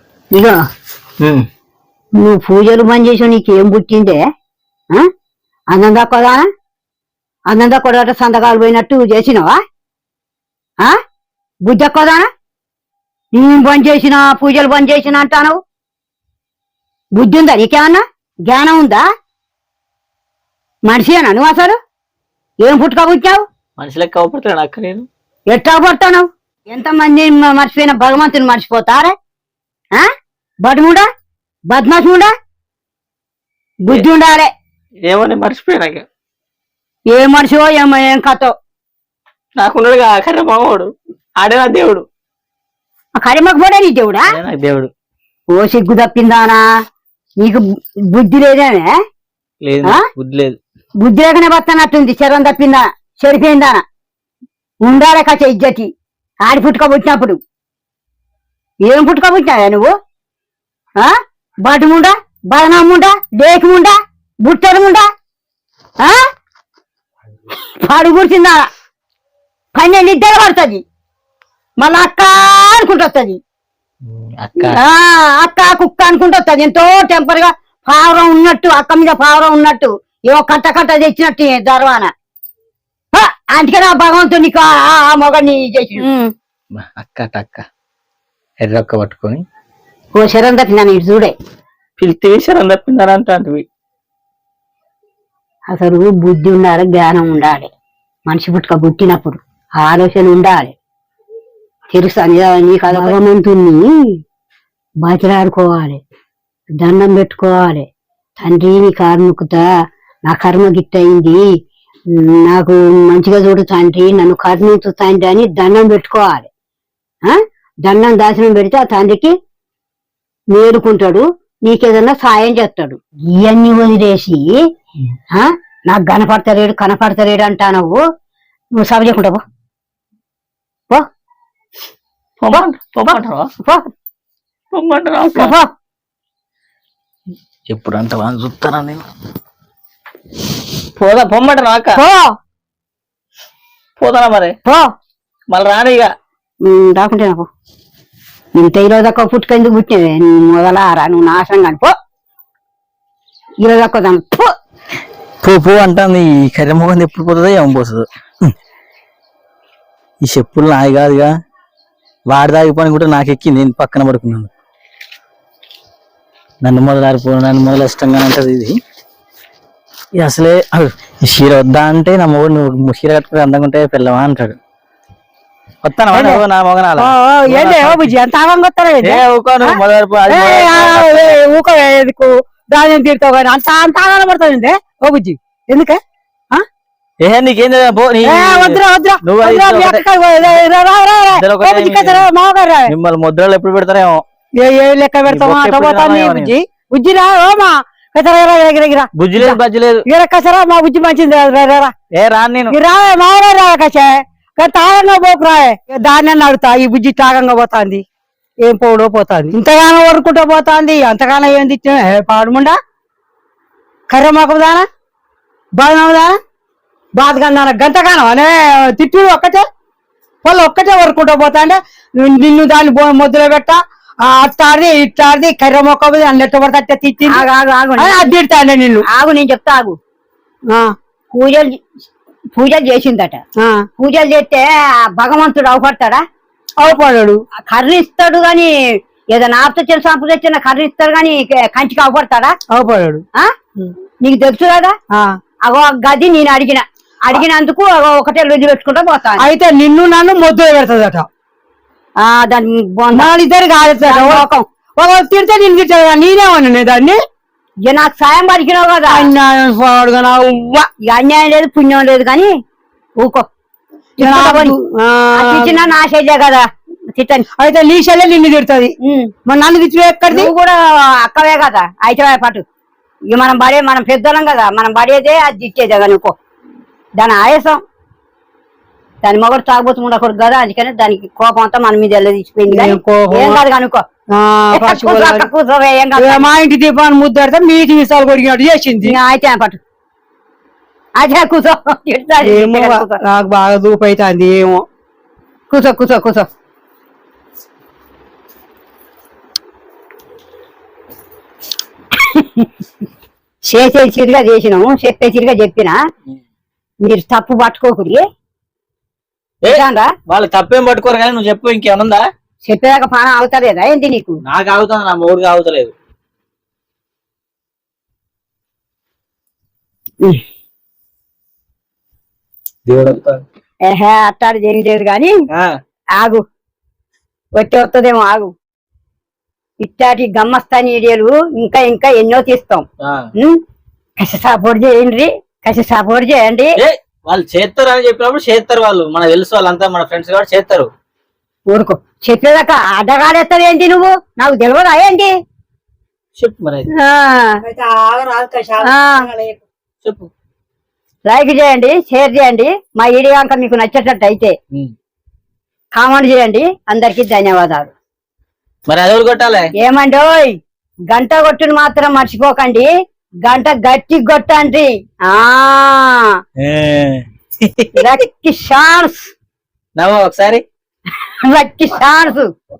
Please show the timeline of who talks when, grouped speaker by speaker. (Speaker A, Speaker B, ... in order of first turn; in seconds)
Speaker A: 2.2-4.2, 5.7-6.5, 7.5-9.6, 11.7-12.3, 13.3-15.6, 17.1-19.0, 20.9-21.8, 22.6-23.4, 25.5-29.1, 30.6-31.1, 31.7-32.3, 33.9-34.5, 37.1-38.5, 43.2-44.3, 45.5-46.6, 47.4-48.9, 51.0-53.8, 54.8-55.9, 56.4-57.4, 58.8-59.9, 61.6-65.1, 67.8-68.7, 69.8-70.8, 71.8-73.4, 74.6-82.1, 83.1-86.1, 90.1-91.3, 95.7-97.7, 98.3-100.7, 101.9-104.2, 105.0-106.0, 106.8-107.9, 108.4-109.6, 110.3-111.4, 112.1-116.5, 117.2-119.3, 120.5-124.5, 125.3-128.0, 128.8-129.4, 135.3-135.7, 142.0-142.3, 146.6-147.5, 148.6-151.9, 153.6-154.5, 227.3-228.2, 229.1-230.0, 231.3-231.8, 232.6-233.4, 234.0-236.2, 237.7-238.7, 239.3-242.5, 244.2-244.9, 245.6-249.5, 252.2-253.3, 254.0-254.6, 257.9-259.3, 261.0-262.5, 263.2-263.5, 264.2-264.7, 265.4-266.6, 267.1-267.4, 269.0-269.3, 270.3-272.6, 273.3-276.3, 277.2-277.8, 279.2-284.0, 284.7-286.4, 289.0-289.8, 291.2-293.2, 295.7-296.5, 302.4-302.6, 303.7-306.0, 307.0-308.2, 309.6-310.1, 312.6-314.4, 323.9-325.3, 327.6-328.5, 329.8-332.8, 334.2-336.8, 341.7-345.3, 346.9-347.6, 348.8-349.3, 351.2-354.5, 355.9-357.9, 359.8-360.5, 361.1-362.9, 363.4-366.3, 367.9-369.3, 371.4-372.5
Speaker B: 23.8-25.1, 35.1-36.0, 39.6-42.0, 44.3-44.9, 49.6-50.6, 74.2-74.8, 86.8-87.6, 88.6-89.4, 92.0-93.6, 132.4-133.5, 134.7-135.5, 137.7-139.1, 141.0-142.0, 144.0-144.6, 145.5-146.1, 155.4-158.5, 160.2-161.3, 162.3-164.5, 166.6-168.8, 170.2-174.6, 175.8-178.1, 179.0-181.3, 187.2-190.0, 191.3-192.3, 192.9-194.2, 195.3-196.5, 199.2-200.0, 202.1-202.8, 309.6-312.2, 314.4-315.9, 322.9-323.4, 333.0-333.3, 336.8-340.9, 346.4-346.9, 350.0-350.3, 358.9-359.7, 366.6-368.1, 370.0-370.6
Speaker C: 176.1-176.4, 177.0-186.0, 188.2-192.9, 194.6-201.9, 202.7-208.0, 208.6-212.8, 214.1-214.8, 215.8-216.3, 217.2-219.7, 220.4-227.4, 228.0-229.0, 230.7-230.9, 233.6-233.9, 236.8-237.4, 242.7-243.2, 245.1-245.4, 249.4-251.3, 253.1-254.4, 255.0-257.2, 259.1-260.9, 264.2-265.8, 267.6-268.9, 269.4-270.5, 282.7-283.6, 284.3-285.5, 286.1-289.1, 292.4-294.8, 347.6-349.6